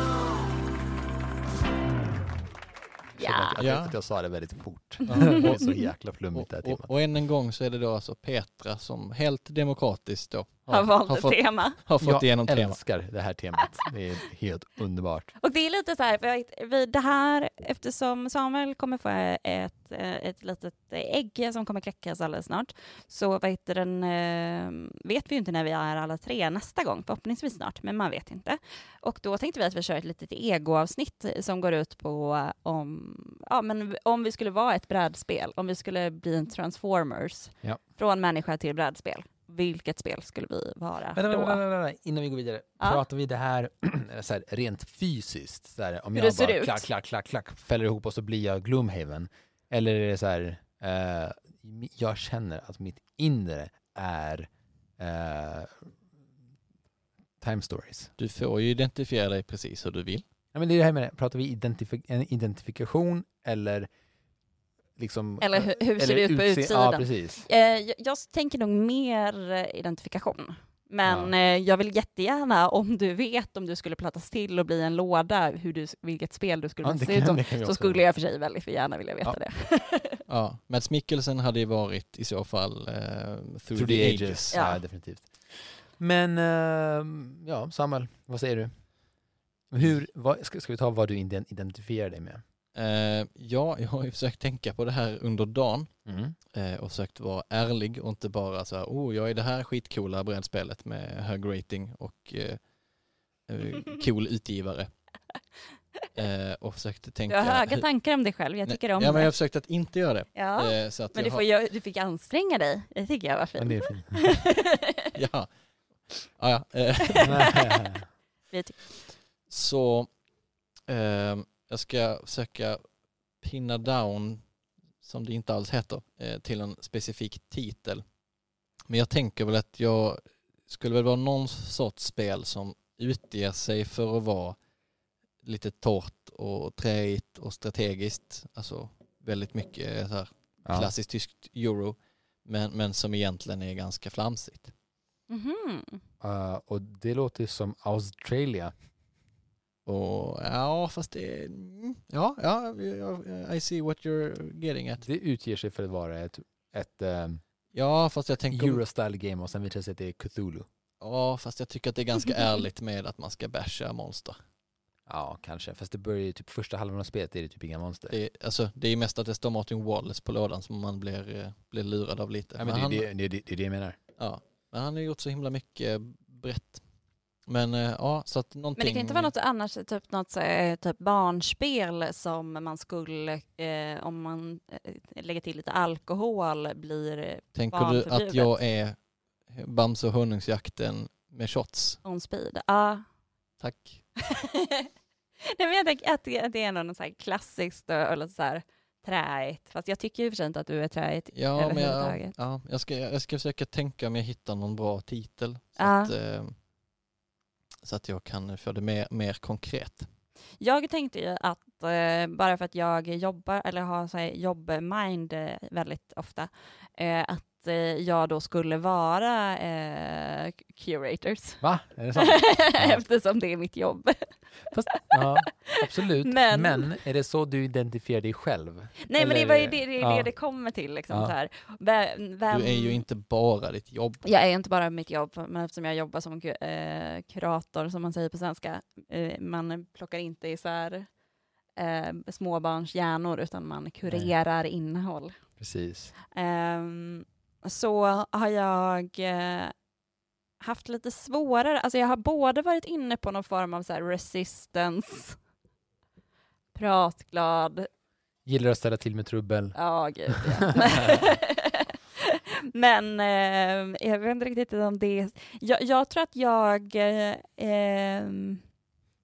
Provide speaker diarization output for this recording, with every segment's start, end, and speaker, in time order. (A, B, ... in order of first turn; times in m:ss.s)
0:03.2-0:03.6 A
0:03.2-0:06.9 B
0:03.6-0:03.9 C
0:05.1-0:05.6 C
0:05.2-0:05.4 A
0:06.3-0:12.8 C
0:10.7-0:11.8 A
0:12.0-0:15.3 B
0:15.4-0:41.6 A
0:41.2-0:55.9 B
0:46.2-0:46.8 A
0:57.4-0:58.1 B
0:58.2-1:00.2 C
1:00.5-1:03.9 B
1:05.0-1:07.5 B
1:05.4-1:20.2 A
1:11.0-1:11.3 B
1:16.8-1:18.0 B
1:20.3-1:24.5 C
1:23.7-1:28.7 B
1:24.5-1:24.8 A
1:29.7-1:32.4 B
1:32.8-1:35.9 C
1:36.1-1:36.4 B
1:36.5-1:42.6 C
1:43.5-1:44.9 C
1:46.2-1:47.9 C
1:47.3-1:49.3 A
1:48.7-1:51.4 C
1:50.4-1:55.1 A
1:53.6-1:54.3 B
1:55.2-1:55.5 C
1:56.1-1:57.6 C
1:57.2-1:57.5 A
1:57.2-1:58.1 B
1:58.5-1:58.8 A
1:59.5-2:00.1 C
2:00.9-2:02.8 C
2:03.4-2:04.4 C
2:05.0-2:08.0 C
2:08.9-2:14.6 C
2:15.4-2:24.7 C
2:20.7-2:20.9 B
2:25.3-2:26.0 A
2:26.2-2:28.7 B
2:29.9-2:35.1 C
2:35.0-2:37.4 B
2:37.7-2:38.8 C
2:38.5-2:40.7 B
2:41.0-2:44.4 C
2:45.1-2:48.2 B
2:48.1-2:53.1 C
2:52.6-2:54.0 B
2:54.2-2:56.8 C
2:57.5-2:59.3 C
2:58.8-3:08.5 A
3:07.6-3:12.0 C
3:12.0-3:13.0 A
3:13.6-3:14.0 C
3:14.2-3:14.9 A
3:15.4-3:22.3 A
3:21.3-3:26.6 C
3:25.8-3:26.1 A
3:27.8-3:30.1 C
3:30.6-3:41.6 A
3:41.6-3:43.0 B
3:42.2-3:44.3 A
3:44.7-3:50.3 B
3:44.9-3:46.9 A
3:49.0-3:53.0 A
3:52.5-3:54.2 C
3:54.2-4:01.1 A
4:01.8-4:05.4 A
4:04.1-4:04.3 B
4:05.6-4:06.1 B
4:06.3-4:09.7 A
4:10.6-4:15.4 A
4:16.8-4:17.9 A
4:18.5-4:19.8 B
4:19.8-4:28.6 A
4:20.3-4:21.2 B